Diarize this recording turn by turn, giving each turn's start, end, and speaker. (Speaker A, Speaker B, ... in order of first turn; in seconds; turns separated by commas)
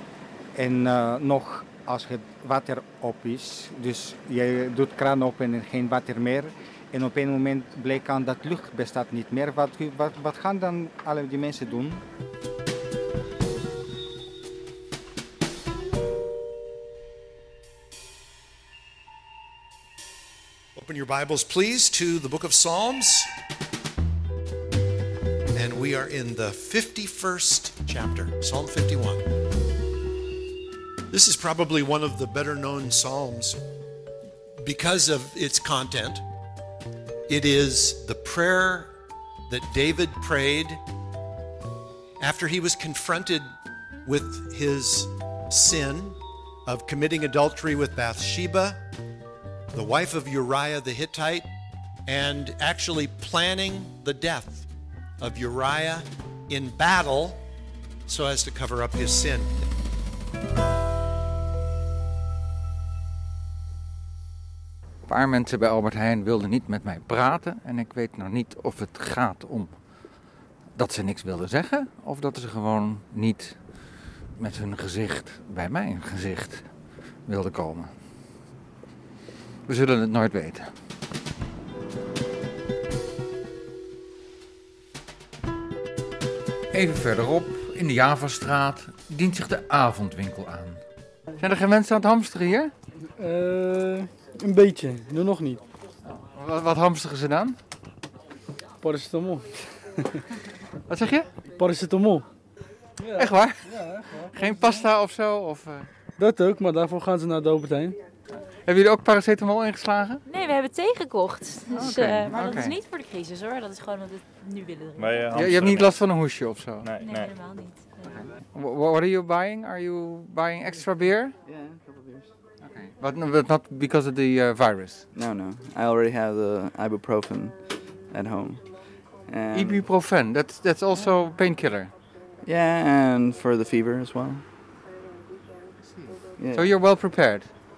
Speaker A: 0.6-12.0, Speaker B: 20.8-23.3, Speaker B: 25.6-29.2, Speaker B: 31.1-33.6, Speaker B: 34.6-36.2, Speaker B: 37.3-38.9, Speaker B: 39.5-40.8, Speaker B: 42.2-43.5, Speaker B: 44.0-48.8, Speaker B: 49.7-51.5, Speaker B: 52.1-54.7, Speaker B: 55.2-57.4, Speaker B: 58.1-59.6, Speaker C: 65.1-69.7, Speaker C: 70.8-73.6, Speaker C: 74.4-76.7, Speaker C: 77.3-77.9, Speaker C: 79.7-80.7, Speaker C: 86.7-90.8, Speaker C: 91.4-92.7, Speaker D: 93.2-95.6, Speaker C: 96.1-97.6, Speaker D: 98.8-99.5, Speaker C: 100.9-101.3, Speaker D: 101.5-102.3, Speaker D: 103.0-104.8, Speaker C: 103.2-103.7, Speaker C: 104.3-105.9, Speaker D: 106.2-108.0, Speaker C: 108.7-110.2, Speaker E: 110.3-115.4, Speaker C: 111.7-112.8, Speaker C: 115.3-117.0, Speaker E: 116.9-118.3, Speaker C: 118.1-121.3, Speaker F: 121.5-122.3, Speaker C: 122.6-125.1, Speaker F: 125.1-127.6, Speaker F: 128.1-128.6, Speaker F: 129.3-129.9, Speaker C: 129.5-131.9, Speaker F: 132.4-134.4, Speaker C: 135.9-137.5, Speaker F: 136.4-136.7